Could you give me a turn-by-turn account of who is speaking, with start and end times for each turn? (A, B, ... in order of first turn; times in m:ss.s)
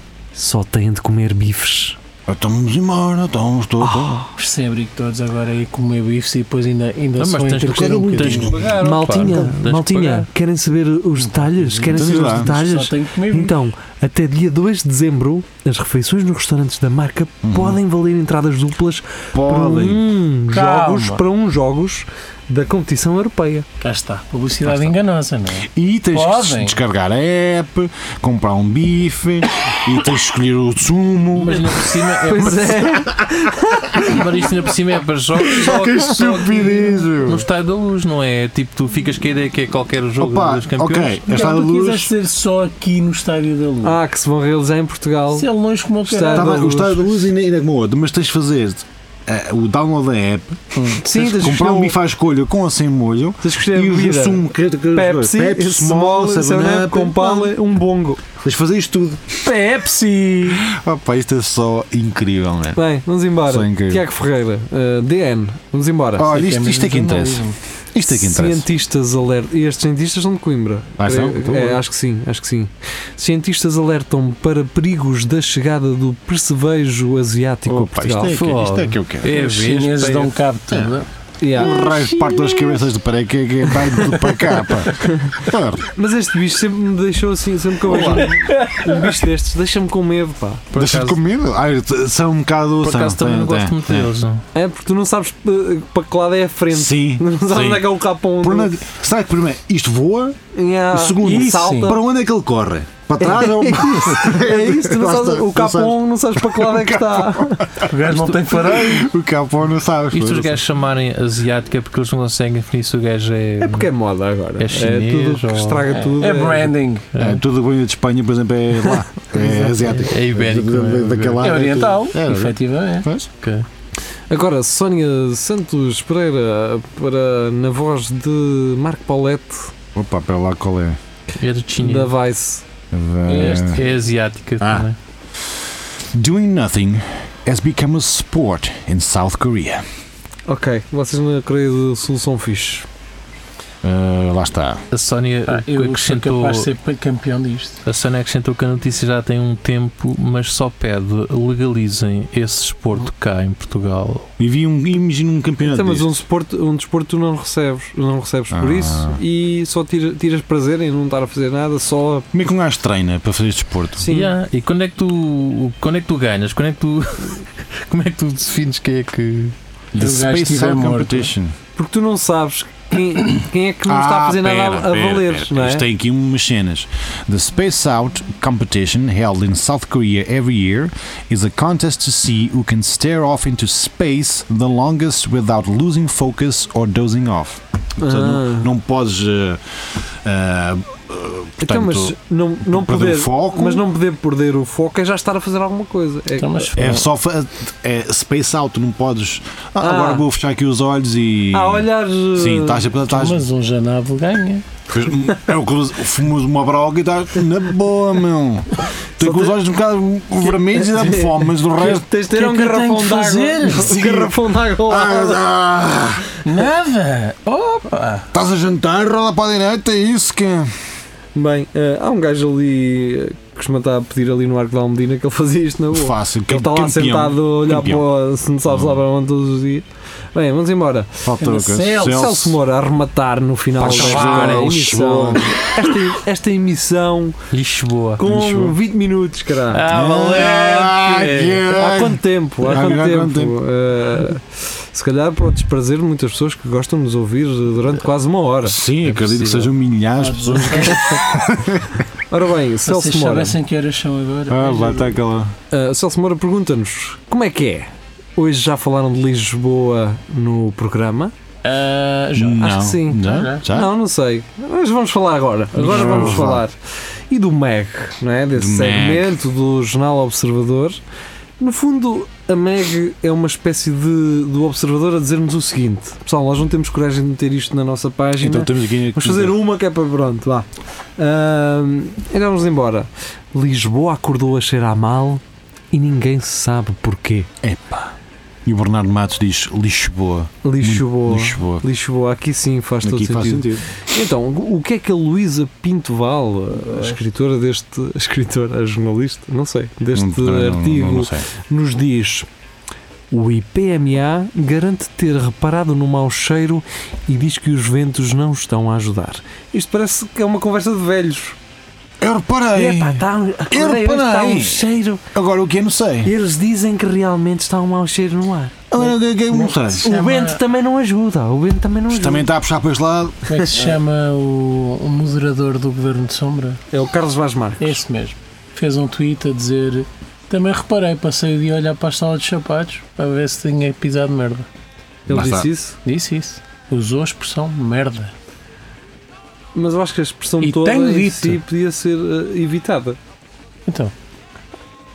0:00.3-0:02.0 A
0:02.3-0:04.2 B
0:03.8-0:04.3 A
0:04.4-0:08.6 C
0:07.2-0:10.3 D
0:07.7-0:09.4 B
0:08.8-0:23.6 A
0:11.6-0:13.5 C
0:11.8-0:12.5 B
0:17.4-0:17.8 B
0:19.3-0:20.1 B
0:20.5-0:21.2 C
0:23.8-0:26.8 C
0:24.6-0:25.0 B
0:25.6-0:31.8 B
0:31.4-0:32.9 D
0:32.2-0:34.2 A
0:33.9-0:41.2 D
0:35.6-0:36.5 A
0:35.6-0:37.4 B
0:40.2-0:42.1 B
0:41.3-0:44.0 C
0:43.8-0:45.5 A
0:45.3-0:46.9 C
0:46.0-0:47.0 A
0:46.3-0:57.5 B
0:50.7-0:51.0 C
0:51.0-0:52.0 A
0:53.4-0:58.2 A
0:58.4-0:59.4 B
0:59.4-1:00.7 C
1:00.5-1:02.8 B
1:02.7-1:06.3 A
1:03.4-1:04.0 B
1:06.2-1:08.6 B
1:06.3-1:07.6 C
1:08.1-1:18.3 A
1:11.0-1:11.8 B
1:17.6-1:19.3 B
1:18.3-1:20.4 D
1:19.3-1:22.8 C
1:20.7-1:21.0 B
1:21.4-1:21.7 A
1:21.5-1:25.8 B
1:25.0-1:25.4 A
1:25.9-1:30.7 A
1:27.9-1:28.3 D
1:28.0-1:29.0 C
1:30.7-1:31.2 D
1:30.7-1:34.1 B
1:32.8-1:34.4 D
1:34.5-1:38.8 A
1:36.7-1:40.4 B
1:40.5-1:42.0 A
1:40.9-1:50.6 B
1:41.2-1:42.0 C
1:43.2-1:47.8 A
1:47.9-1:49.1 C
1:50.1-1:53.9 D
1:53.6-1:56.7 A
1:54.6-1:55.9 D
1:55.9-1:57.1 C
1:57.1-1:57.4 D
1:57.2-2:03.3 B
1:59.9-2:01.7 D
2:01.4-2:03.1 C
2:03.4-2:03.6 D
2:04.3-2:09.7 A
2:09.9-2:11.0 B
2:11.4-2:12.1 D
2:11.8-2:12.6 A
2:12.9-2:13.8 B
2:13.3-2:13.9 C
2:13.3-2:15.0 D
2:14.6-2:14.9 B
2:15.4-2:19.8 B
2:20.5-2:22.9 A
2:23.8-2:24.8 B
2:24.9-2:26.7 D
2:25.5-2:27.8 C
2:27.8-2:34.3 D
2:34.4-2:36.1 B
2:35.6-2:42.3 A
2:38.5-2:39.2 B
2:42.3-2:44.1 B
2:44.0-2:44.3 A
2:44.1-2:49.5 D
2:49.9-2:51.5 B
2:50.0-2:51.3 C
2:51.8-2:55.8 A
2:53.9-3:12.1 B
3:08.0-3:08.7 A
3:11.6-3:16.7 A
3:12.6-3:13.9 B
3:16.4-3:17.0 C
3:16.8-3:23.4 B
3:19.8-3:20.2 A
3:21.5-3:22.9 A
3:23.0-3:24.6 C
3:24.9-3:32.0 B
3:29.2-3:29.6 A
3:30.4-3:35.4 A
3:32.3-3:34.3 C
3:34.9-3:36.2 B
3:36.4-3:38.2 C
3:38.3-3:40.7 B
3:41.3-3:51.3 A
3:45.9-3:48.0 B
3:48.7-3:49.0 B
3:51.2-3:52.6 B
3:51.4-3:52.3 C
3:52.0-3:57.4 A
3:53.8-3:56.0 B
3:53.8-3:54.9 D
3:57.5-3:58.2 D
3:58.2-3:59.8 A
3:58.2-3:58.8 B
3:59.7-4:01.6 D
3:59.9-4:03.6 B
4:01.7-4:08.8 A
4:08.6-4:12.0 B
4:09.0-4:09.7 D
4:10.2-4:11.0 C
4:12.3-4:13.6 A
4:12.8-4:15.2 C
4:14.5-4:15.5 B
4:15.7-4:21.3 A
4:21.6-4:22.7 C
4:22.3-4:23.9 B
4:22.6-4:26.8 A
4:23.2-4:23.6 C
4:25.7-4:26.6 B
4:25.9-4:26.3 D
4:27.3-4:31.0 A
4:28.5-4:29.4 B
4:31.6-4:47.5 A
4:38.4-4:39.6 B
4:47.6-4:48.1 B
4:48.6-4:51.8 B
4:50.6-5:02.5 A
4:53.0-4:53.8 B
5:00.1-5:01.4 B
5:03.3-5:11.6 A
5:12.2-5:16.3 B
5:12.8-5:15.2 A
5:16.2-5:18.8 A
5:18.9-5:20.0 B
5:19.0-5:20.6 C
5:20.0-5:22.5 A
5:22.1-5:23.4 B
5:23.5-5:26.8 C
5:26.9-5:28.0 A
5:27.8-5:34.6 C
5:35.3-5:36.0 A
5:35.3-5:35.7 B
5:36.0-5:38.3 C
5:39.7-5:43.2 A
5:40.6-5:41.6 C
5:43.9-5:44.1 C